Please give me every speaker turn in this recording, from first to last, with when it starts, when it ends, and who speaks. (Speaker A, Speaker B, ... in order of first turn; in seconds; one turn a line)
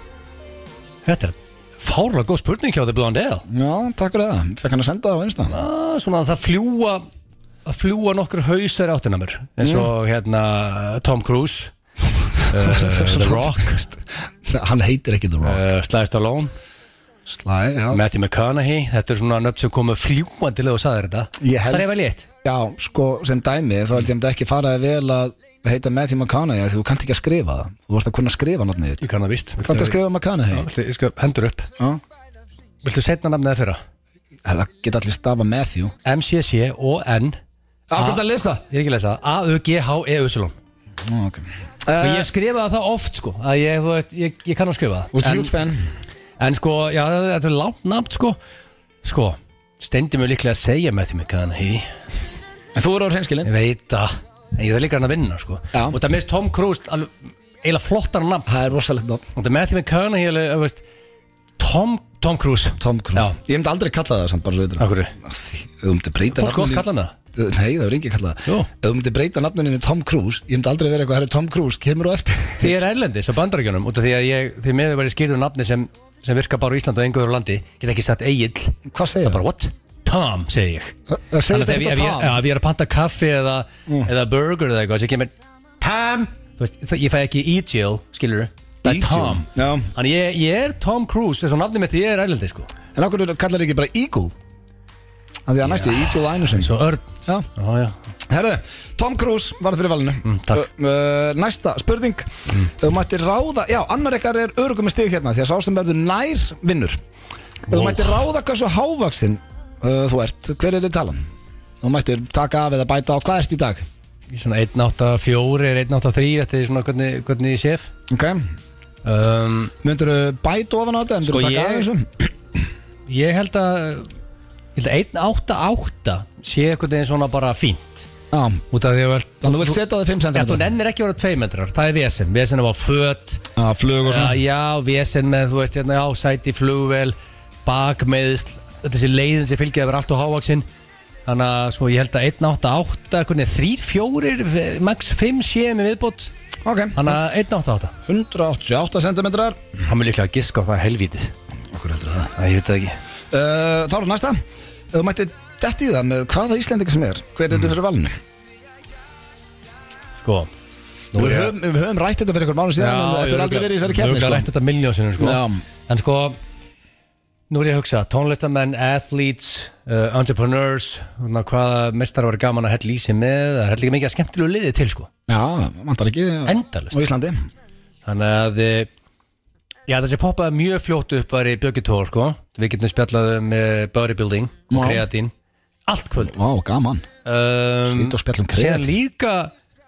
Speaker A: 1.1-3.5
Speaker B: 3.5-5.6
Speaker A: 5.5-7.0
Speaker A: 7.7-11.7
Speaker B: 9.6-9.9
Speaker A: 12.5-13.8
Speaker B: 12.5-15.6
Speaker A: 15.4-16.5
Speaker B: 17.3-18.0
Speaker A: 17.9-22.3
Speaker B: 21.4-21.9
Speaker B: 22.4-29.0
Speaker A: 29.0-30.0
Speaker B: 29.6-30.7
Speaker A: 30.5-31.7
Speaker A: 32.8-33.8
Speaker B: 34.5-35.9
Speaker A: 36.0-37.4
Speaker B: 37.9-38.6
Speaker A: 37.9-40.6
Speaker B: 41.0-42.3
Speaker A: 42.0-45.5
Speaker B: 45.1-45.8
Speaker A: 46.4-48.4
Speaker A: 49.0-51.9
Speaker B: 52.8-53.5
Speaker A: 53.5-57.1
Speaker B: 55.7-56.0
Speaker A: 57.6-58.7
Speaker B: 58.5-59.2
Speaker A: 59.4-60.8
Speaker A: 61.6-63.4
Speaker B: 62.8-72.8
Speaker A: 64.8-65.1
Speaker A: 66.3-67.1
Speaker A: 72.6-80.9
Speaker B: 78.9-79.4
Speaker B: 81.1-82.4
Speaker A: 81.5-92.7
Speaker B: 88.8-89.9
Speaker B: 93.0-94.3
Speaker B: 95.5-96.8
Speaker A: 95.6-98.0
Speaker B: 98.3-107.0
Speaker A: 100.2-100.7
Speaker B: 107.7-111.2
Speaker A: 107.7-108.2
Speaker B: 111.8-113.8
Speaker A: 114.3-117.9
Speaker B: 118.1-118.5
Speaker A: 119.0-119.7
Speaker B: 119.8-122.3
Speaker A: 121.2-121.9
Speaker A: 123.1-124.1
Speaker A: 124.8-128.1
Speaker B: 128.3-128.6
Speaker A: 128.7-129.8
Speaker B: 129.4-130.7
Speaker A: 130.3-133.4
Speaker B: 133.6-134.4
Speaker A: 134.0-140.7
Speaker A: 141.3-146.3
Speaker B: 146.7-147.2
Speaker A: 146.9-147.9
Speaker B: 148.1-149.6
Speaker A: 149.9-151.3
Speaker B: 151.7-152.3
Speaker A: 152.4-153.0
Speaker B: 153.3-154.4
Speaker B: 154.9-158.1
Speaker A: 160.2-160.5
Speaker A: 161.1-161.5
Speaker B: 161.2-164.5
Speaker A: 162.8-166.4
Speaker B: 165.2-165.6
Speaker A: 167.5-175.1
Speaker B: 175.3-177.4
Speaker A: 176.5-177.0
Speaker A: 178.1-178.9
Speaker A: 179.9-185.3
Speaker B: 184.7-185.0
Speaker A: 185.9-186.4
Speaker B: 186.2-187.1
Speaker A: 187.2-189.5
Speaker B: 187.9-188.9